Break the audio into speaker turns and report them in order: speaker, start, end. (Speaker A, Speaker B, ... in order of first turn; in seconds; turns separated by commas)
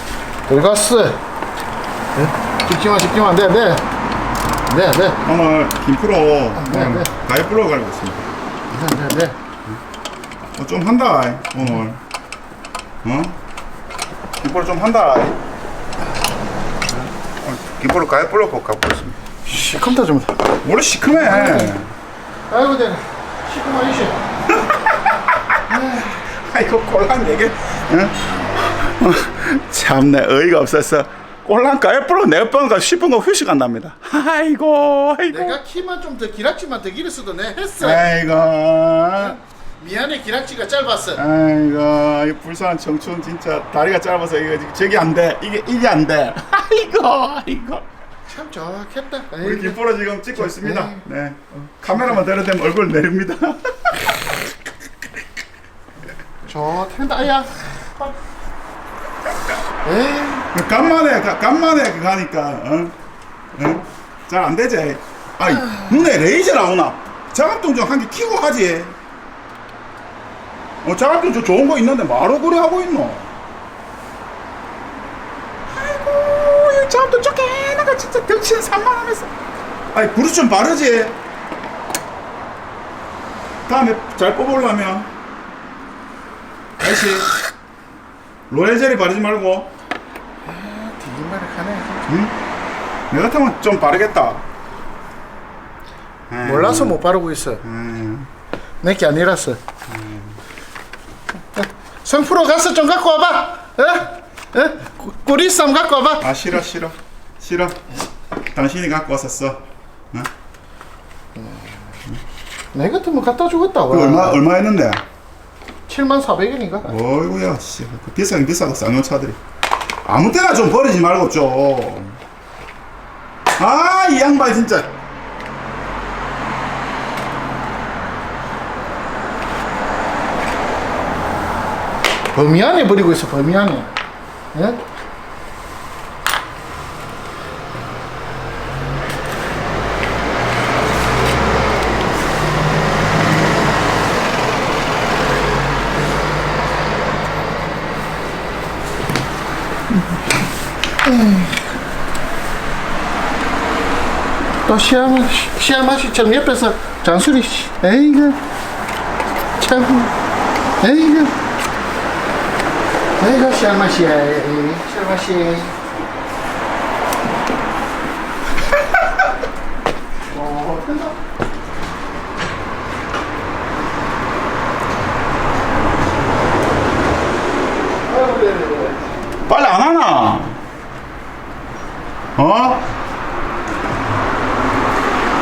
Speaker A: 0.5-1.2, Speaker A: 2.1-3.8, Speaker A: 4.7-5.2, Speaker B: 5.2-8.2, Speaker A: 6.5-7.1, Speaker A: 8.7-9.3, Speaker B: 10.6-12.0, Speaker B: 13.0-13.4, Speaker B: 14.4-15.4, Speaker B: 16.9-19.1, Speaker A: 19.4-20.4, Speaker B: 20.6-21.9, Speaker A: 21.2-21.7, Speaker A: 22.5-24.2, Speaker B: 24.6-24.9, Speaker B: 25.7-35.6, Speaker A: 35.3-38.1, Speaker B: 37.8-39.4, Speaker A: 39.1-41.2, Speaker B: 41.1-47.8, Speaker A: 48.3-49.8, Speaker B: 49.4-54.0, Speaker A: 50.4-51.0, Speaker A: 56.5-58.2, Speaker A: 59.8-60.5, Speaker B: 60.5-62.9, Speaker B: 63.5-69.0, Speaker B: 70.8-73.3, Speaker B: 75.7-79.3, Speaker B: 79.9-81.2, Speaker B: 83.7-85.1, Speaker B: 86.8-87.3, Speaker B: 88.5-89.7, Speaker A: 90.4-92.0, Speaker B: 92.1-92.3, Speaker B: 93.1-94.4, Speaker B: 96.3-97.0, Speaker A: 96.4-97.6, Speaker B: 97.6-98.3, Speaker A: 98.8-99.6, Speaker B: 99.9-100.4, Speaker A: 101.5-106.3, Speaker B: 106.2-107.8, Speaker B: 108.5-110.3, Speaker A: 111.4-111.7, Speaker A: 112.7-114.4, Speaker B: 113.9-115.0, Speaker A: 115.9-116.9, Speaker B: 116.9-119.4, Speaker B: 120.0-122.2, Speaker B: 123.6-124.9, Speaker A: 132.3-133.9, Speaker A: 134.5-134.8, Speaker A: 151.0-151.8, Speaker A: 154.7-158.4, Speaker A: 159.6-160.1, Speaker A: 160.8-161.3, Speaker A: 163.2-165.8, Speaker A: 170.3-171.2, Speaker A: 178.1-179.1, Speaker B: 179.5-180.6, Speaker B: 182.3-182.9